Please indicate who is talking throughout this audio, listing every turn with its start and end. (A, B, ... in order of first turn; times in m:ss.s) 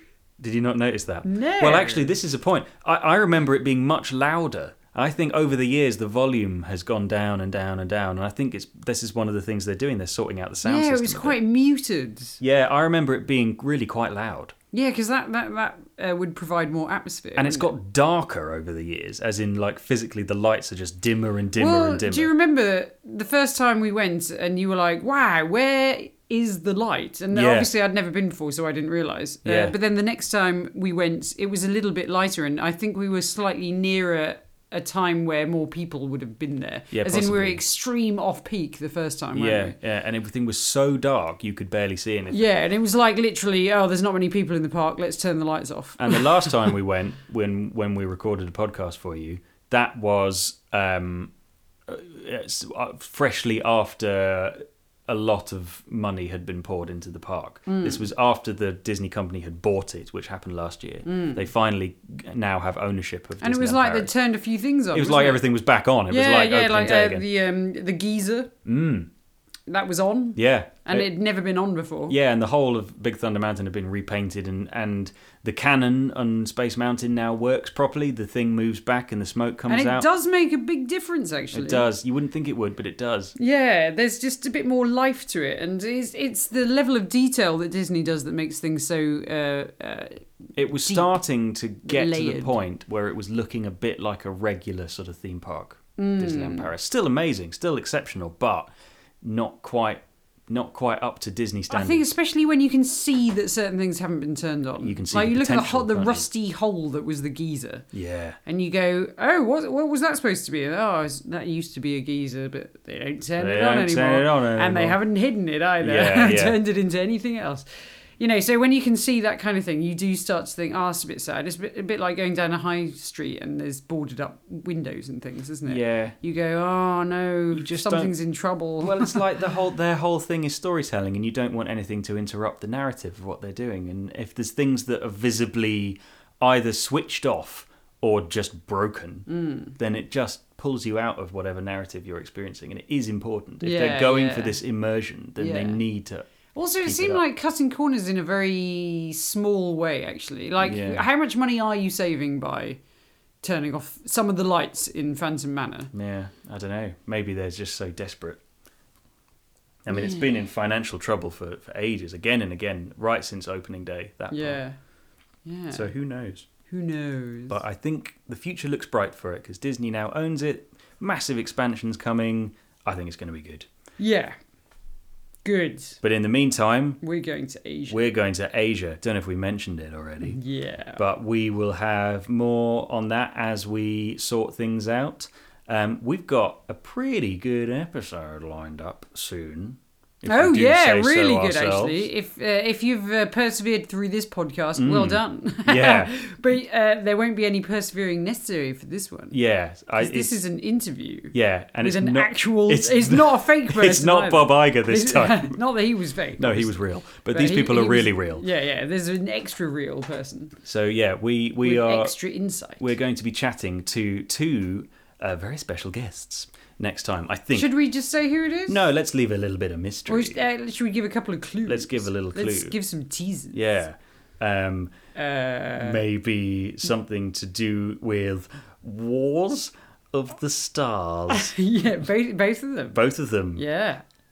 0:00.4-0:11.4 A
0:01.2-0:02.1 B
0:10.6-0:12.4 B
0:12.4-0:14.6 A
0:14.7-0:17.7 B
0:17.4-0:22.3 A
0:21.6-0:39.8 B
0:27.3-0:27.7 A
0:29.4-0:29.8 A
0:36.9-0:37.6 A
0:39.4-0:42.4 A
0:42.3-0:46.7 B
0:46.0-0:51.3 A
0:51.9-1:04.1 A
0:57.7-0:58.0 B
1:01.0-1:01.4 B
1:03.4-1:05.4 B
1:04.9-1:07.2 A
1:06.1-1:08.5 B
1:08.6-1:09.1 A
1:09.7-1:12.2 B
1:10.4-1:11.1 A
1:12.1-1:20.1 A
1:19.7-1:21.9 B
1:21.5-1:23.4 A
1:23.4-1:31.2 B
1:30.6-1:38.7 A
1:31.8-1:32.6 B
1:36.0-1:36.7 B
1:39.2-1:42.1 A
1:41.7-1:47.9 B
1:44.8-1:46.3 A
1:47.9-1:48.4 A
1:48.5-1:57.7 B
1:53.4-1:55.0 A
1:55.8-1:56.6 A
1:58.2-2:09.3 B
2:05.6-2:06.2 A
2:07.5-2:08.2 A
2:08.8-2:19.3 A
2:19.3-2:19.8 B
2:19.8-2:26.3 A
2:23.6-2:24.6 B
2:25.4-2:25.8 B
2:26.5-2:32.8 B
2:26.8-2:27.2 A
2:30.6-2:31.0 A
2:33.4-2:35.9 B
2:35.9-2:38.4 A
2:39.8-2:44.6 A
2:44.3-2:44.8 B
2:45.4-2:45.9 B
2:45.7-2:46.5 A
2:46.7-2:47.6 B
2:47.5-2:53.7 A
2:54.0-2:54.4 B
2:55.4-2:56.0 B
2:56.0-2:57.0 A
2:57.0-2:58.1 B
2:57.9-3:00.4 A
3:00.2-3:01.0 B
3:01.0-3:12.1 A
3:10.2-3:19.4 B
3:14.8-3:16.1 A
3:19.3-3:20.4 A
3:20.0-3:30.6 B
3:21.3-3:25.6 A
3:26.4-3:28.4 A
3:30.6-3:32.2 A
3:31.6-3:32.9 B
3:32.8-3:37.7 A
3:37.5-3:38.8 B
3:38.7-3:40.4 A
3:40.1-3:43.8 B
3:41.6-3:42.8 A
3:43.5-3:44.9 A
3:45.2-3:46.0 B
3:45.8-3:51.6 A
3:51.3-3:53.0 B
3:52.9-3:53.6 A
3:53.6-3:54.0 B